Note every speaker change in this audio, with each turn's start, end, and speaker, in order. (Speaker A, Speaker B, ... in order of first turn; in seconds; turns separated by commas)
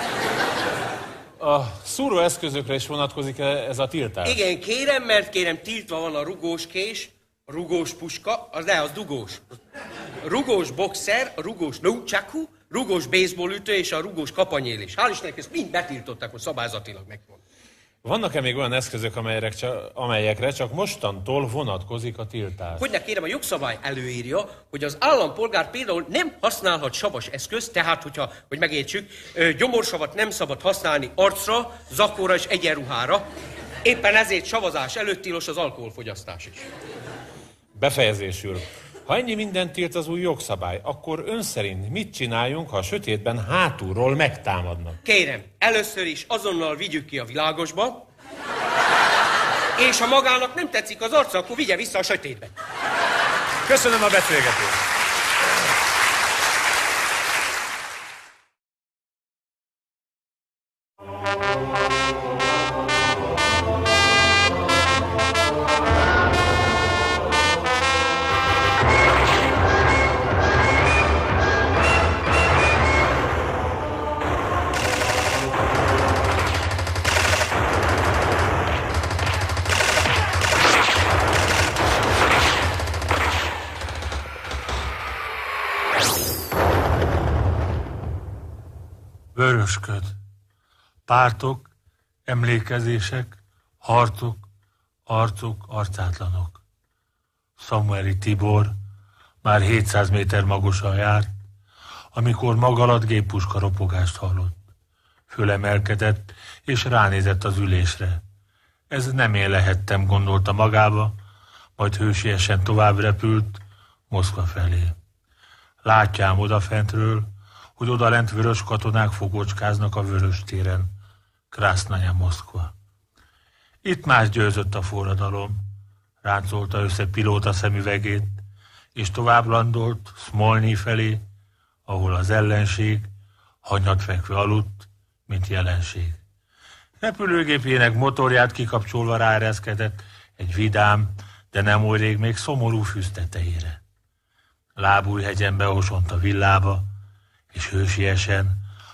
Speaker A: 1.4-4.4, Speaker B: 4.2-9.5, Speaker B: 10.2-17.4, Speaker A: 18.0-22.8, Speaker B: 22.8-33.3, Speaker B: 33.8-36.6, Speaker A: 37.8-45.0, Speaker B: 45.0-48.1, Speaker B: 49.8-52.5, Speaker A: 53.7-54.8, Speaker C: 89.3-90.2, Speaker C: 91.1-91.7, Speaker C: 92.3-94.5, Speaker C: 95.1-96.6, Speaker C: 97.6-98.8, Speaker C: 99.4-101.3, Speaker C: 102.1-104.5, Speaker C: 105.3-108.2, Speaker C: 108.9-111.2, Speaker C: 111.8-115.0, Speaker C: 115.8-120.9, Speaker C: 121.5-122.7, Speaker C: 123.8-125.6, Speaker C: 126.2-128.4, Speaker C: 128.9-131.2, Speaker C: 131.9-133.1, Speaker C: 133.6-136.2, Speaker C: 137.0-143.8, Speaker C: 144.8-146.9, Speaker C: 147.5-148.6